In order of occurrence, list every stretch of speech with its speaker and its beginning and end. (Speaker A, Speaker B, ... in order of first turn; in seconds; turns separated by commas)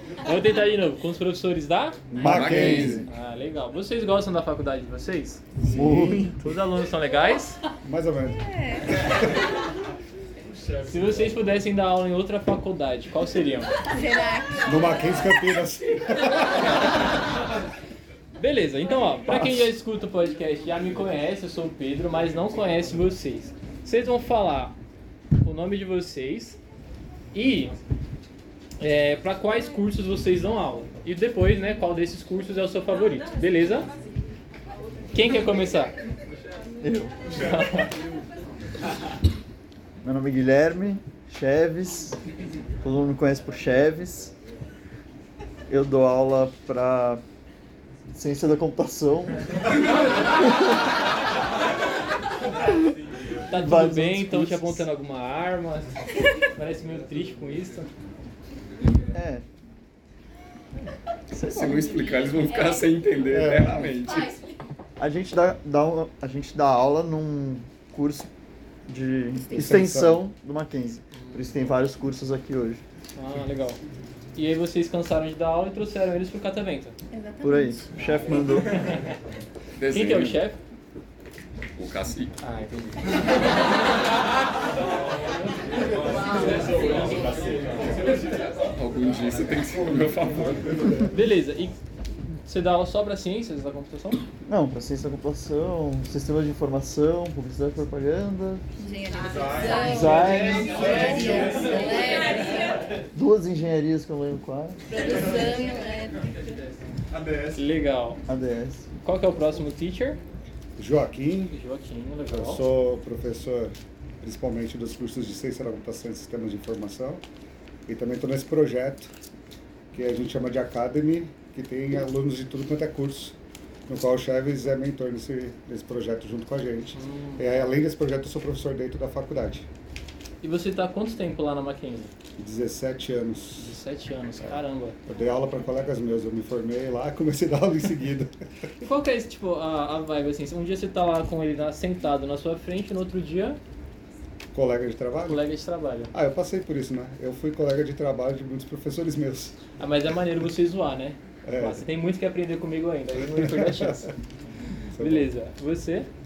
Speaker A: 0.2-5.4, Speaker B: 2.1-3.0, Speaker C: 2.1-3.0, Speaker D: 2.2-3.0, Speaker B: 5.6-6.2, Speaker C: 5.7-6.5, Speaker A: 6.4-7.6, Speaker B: 7.8-9.2, Speaker E: 8.3-9.0, Speaker A: 10.8-13.7, Speaker E: 13.9-14.8, Speaker B: 14.7-16.7, Speaker A: 18.4-24.8, Speaker B: 19.3-19.7, Speaker A: 25.4-26.6, Speaker A: 27.3-27.8, Speaker A: 28.8-33.9, Speaker A: 35.1-36.0, Speaker C: 36.8-37.2, Speaker A: 37.4-37.9, Speaker C: 40.0-42.2, Speaker C: 42.8-44.3, Speaker C: 45.7-47.2, Speaker C: 48.1-49.5, Speaker C: 50.3-50.8, Speaker A: 53.5-57.9, Speaker C: 53.5-54.9, Speaker C: 59.1-59.5, Speaker C: 61.3-61.9, Speaker D: 61.5-64.4, Speaker B: 63.3-64.0, Speaker E: 64.1-64.3, Speaker C: 65.0-68.3, Speaker C: 68.9-72.8, Speaker B: 69.5-70.2, Speaker A: 71.2-71.7, Speaker A: 73.2-73.8, Speaker A: 74.4-77.0, Speaker E: 77.1-77.8, Speaker C: 77.4-78.8, Speaker D: 79.8-80.5, Speaker A: 79.9-80.6, Speaker D: 81.8-82.3, Speaker A: 82.4-83.1, Speaker D: 88.0-91.0, Speaker A: 91.0-91.8, Speaker A: 92.3-94.2, Speaker C: 94.5-98.6, Speaker E: 98.8-102.8, Speaker A: 99.9-100.7, Speaker C: 99.9-100.7, Speaker C: 103.1-104.8, Speaker E: 104.9-106.7, Speaker A: 107.5-108.2, Speaker C: 108.3-108.9, Speaker A: 109.0-110.2, Speaker B: 110.8-111.5, Speaker A: 111.5-112.6, Speaker B: 112.3-117.2, Speaker B: 117.9-119.1, Speaker B: 119.9-123.4, Speaker B: 123.9-129.7, Speaker A: 126.9-127.5, Speaker A: 130.4-132.1, Speaker B: 132.4-133.8, Speaker A: 133.6-135.0, Speaker B: 134.4-138.3, Speaker A: 138.8-143.6, Speaker B: 144.5-145.4, Speaker A: 145.2-146.1, Speaker B: 146.1-149.6, Speaker A: 149.8-154.1, Speaker B: 151.5-151.8, Speaker B: 153.5-153.9, Speaker B: 154.9-155.3, Speaker A: 155.0-156.1